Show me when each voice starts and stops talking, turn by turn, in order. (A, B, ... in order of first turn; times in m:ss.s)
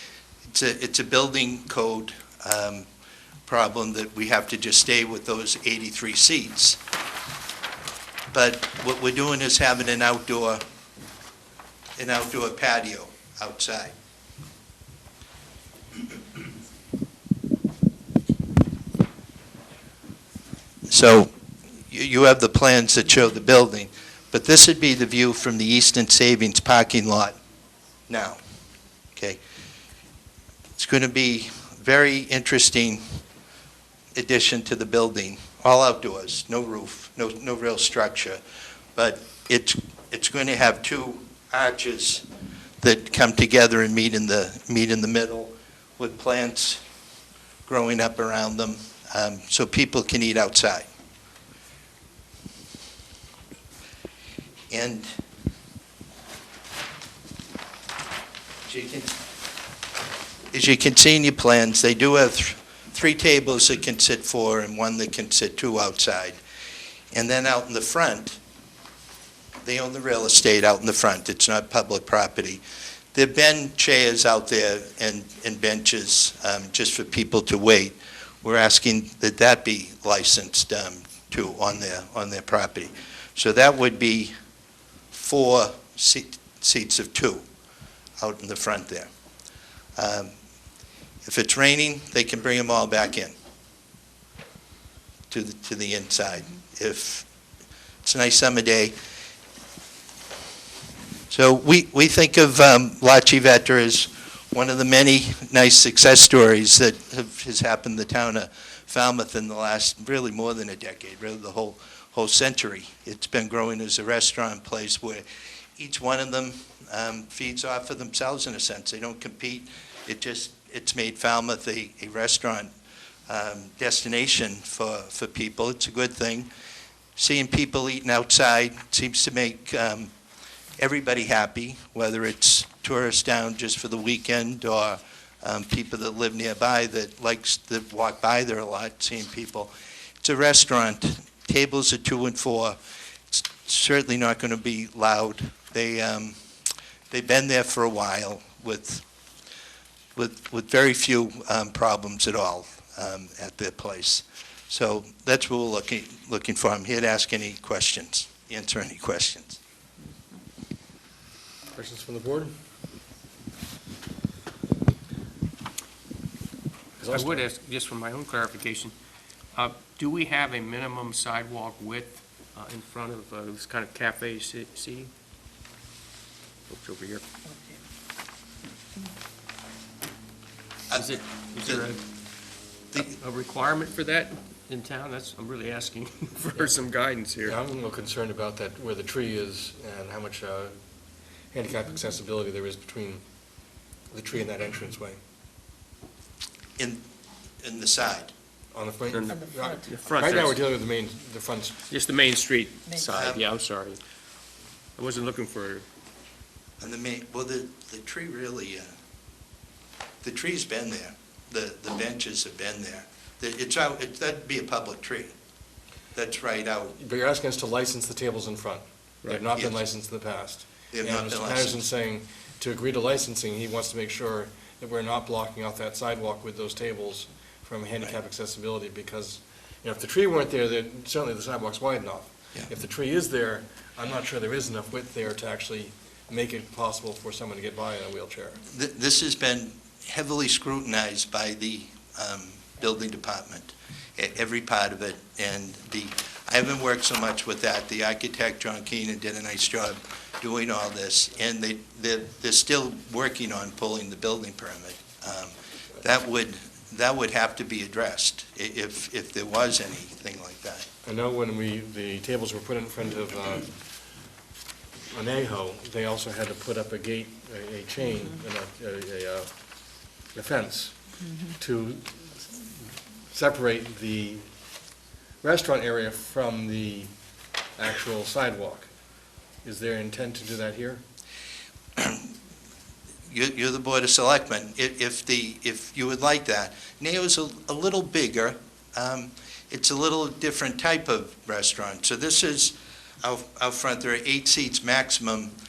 0:00.5-0:02.9 A
0:03.5-0:06.8 A
0:08.3-0:10.6 A
0:12.0-0:13.9 A
0:20.9-0:21.3 A
0:21.9-0:27.4 A
0:28.1-0:28.4 A
0:30.8-0:33.0 A
0:34.1-0:38.4 A
0:39.0-0:42.2 A
0:42.8-0:46.8 A
0:47.7-0:50.9 A
0:54.7-0:55.1 A
0:58.7-0:59.2 A
1:00.5-1:06.4 A
1:07.1-1:08.4 A
1:09.6-1:12.6 A
1:13.1-1:24.3 A
1:25.1-1:27.4 A
1:28.2-1:29.1 A
1:30.0-1:30.3 A
1:31.2-1:33.3 A
1:35.3-1:37.3 A
1:38.0-1:39.0 A
1:41.3-1:55.2 A
1:55.8-2:02.7 A
2:03.3-2:06.5 A
2:07.2-2:10.1 A
2:10.8-2:19.7 A
2:20.2-2:22.8 A
2:23.3-2:26.4 A
2:27.1-2:29.0 A
2:30.2-2:39.6 A
2:41.8-2:42.5 B
2:47.0-2:47.4 B
2:47.1-2:48.9 C
2:49.6-2:55.1 C
2:56.7-2:57.2 C
3:00.9-3:01.9 A
3:00.9-3:02.0 C
3:03.0-3:07.6 C
3:07.4-3:10.8 B
3:11.5-3:13.2 B
3:14.1-3:15.2 B
3:16.8-3:17.0 A
3:17.6-3:18.3 A
3:18.7-3:21.8 B
3:19.1-3:20.6 C
3:21.9-3:24.0 C
3:23.1-3:23.4 A
3:25.0-3:25.9 C
3:26.8-3:29.0 A
3:30.2-3:35.3 A
3:36.2-3:37.0 A
3:37.0-3:58.6 B
3:40.9-3:41.8 A
3:58.7-4:20.9 A
4:21.0-4:23.7 B
4:25.1-4:29.5 B
4:30.3-4:34.4 B
4:35.4-4:37.1 B
4:37.8-4:38.9 B
4:39.6-4:41.0 B
4:42.0-4:42.3 A
4:43.3-4:55.5 A